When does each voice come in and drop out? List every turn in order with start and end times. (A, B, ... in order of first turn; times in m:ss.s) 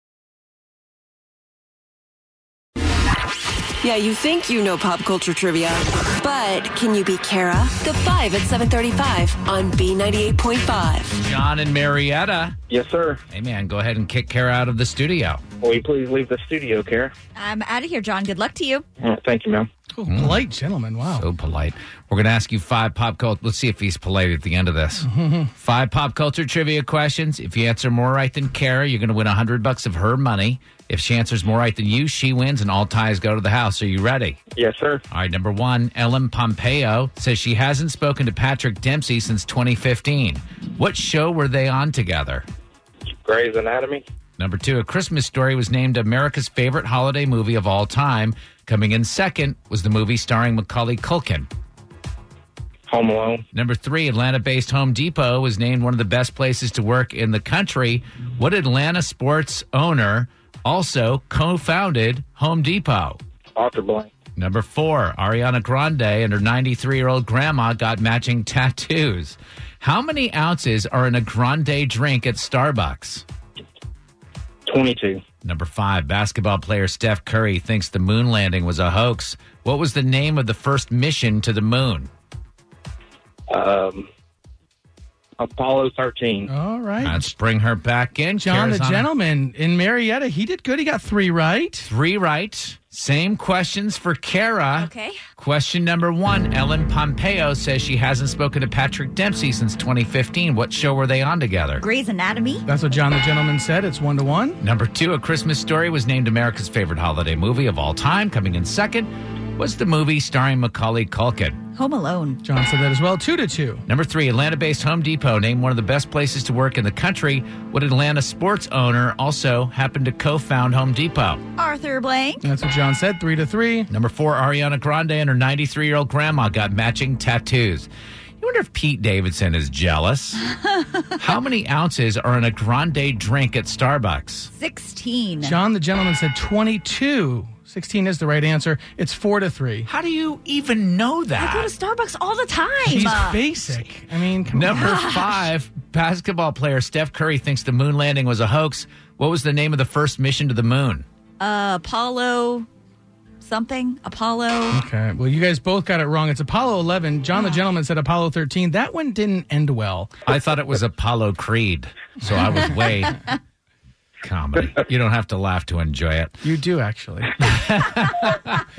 0:03.8-0:11.1 A
0:11.2-0:12.6 B
0:12.7-0:13.2 C
0:13.3-0:15.4 B
0:15.6-0:17.1 C
0:17.4-0:18.8 D
0:19.0-0:19.7 C
0:19.9-0:21.3 E
0:20.1-0:20.4 B
0:21.1-0:34.4 B
0:25.1-0:25.5 E
0:34.5-0:35.0 C
0:35.1-0:42.4 B
0:43.1-0:44.0 C
0:44.4-0:51.5 B
0:52.9-0:53.4 C
0:53.5-1:03.2 B
1:03.6-1:04.1 C
1:04.4-1:13.2 B
1:14.6-1:15.2 C
1:15.4-1:22.1 B
1:23.5-1:24.1 C
1:25.4-1:26.5 C
1:26.4-1:27.3 E
1:27.0-1:29.1 B
1:28.4-1:31.9 E
1:31.8-1:41.8 B
1:34.7-1:35.2 D
1:41.8-1:42.6 D
1:42.6-1:44.6 E
1:44.6-1:51.6 B
1:51.8-1:52.4 D
1:52.4-1:53.8 E
1:53.9-2:01.4 B
2:01.6-2:02.4 D
2:02.4-2:03.9 E
2:03.9-2:07.9 B
2:08.4-2:10.4 B
2:11.2-2:14.5 B
2:14.5-2:15.5 D
2:15.4-2:19.9 E
2:19.9-2:21.7 B
2:21.4-2:23.4 D
2:22.8-2:24.9 E
2:24.5-2:31.0 B
2:24.9-2:25.3 D
2:31.4-2:32.7 D
2:33.4-2:34.8 D
2:34.7-2:40.2 E
2:40.2-2:43.2 B
2:44.2-2:46.4 B
2:46.4-2:47.8 E
2:47.5-2:48.6 B